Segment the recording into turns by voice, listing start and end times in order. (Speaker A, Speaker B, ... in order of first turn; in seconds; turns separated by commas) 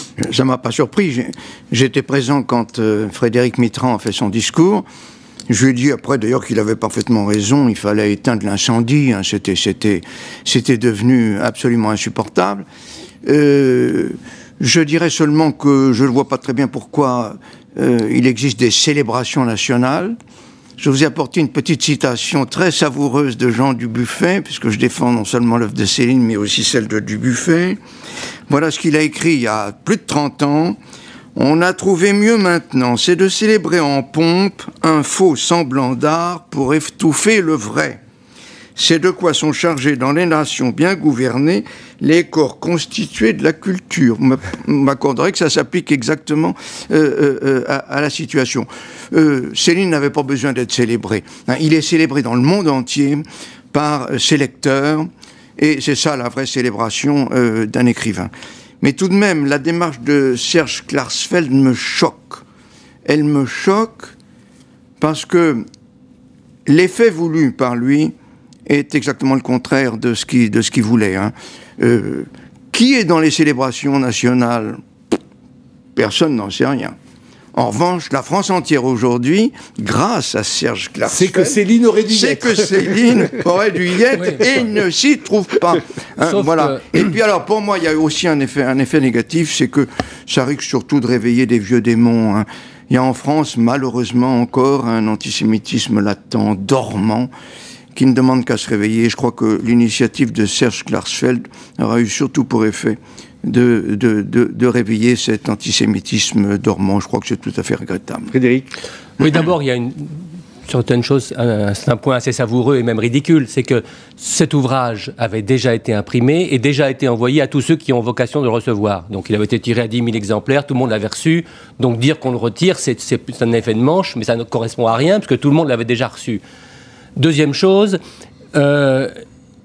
Speaker A: 0.2-4.8, Speaker A: 5.5-12.7, Speaker A: 13.2-20.1, Speaker A: 20.8-27.8, Speaker A: 28.5-30.8, Speaker A: 31.4-38.0, Speaker A: 38.8-58.3, Speaker A: 58.8-62.4, Speaker A: 63.0-64.1, Speaker A: 65.0-65.6, Speaker A: 66.7-68.1, Speaker A: 68.7-74.8, Speaker A: 76.0-77.0, Speaker A: 77.5-97.3, Speaker B: 81.1-83.3, Speaker C: 84.2-84.4, Speaker C: 86.2-86.8, Speaker A: 97.9-108.3, Speaker B: 108.3-108.7, Speaker C: 109.2-126.4, Speaker C: 127.2-128.0, Speaker C: 128.5-129.1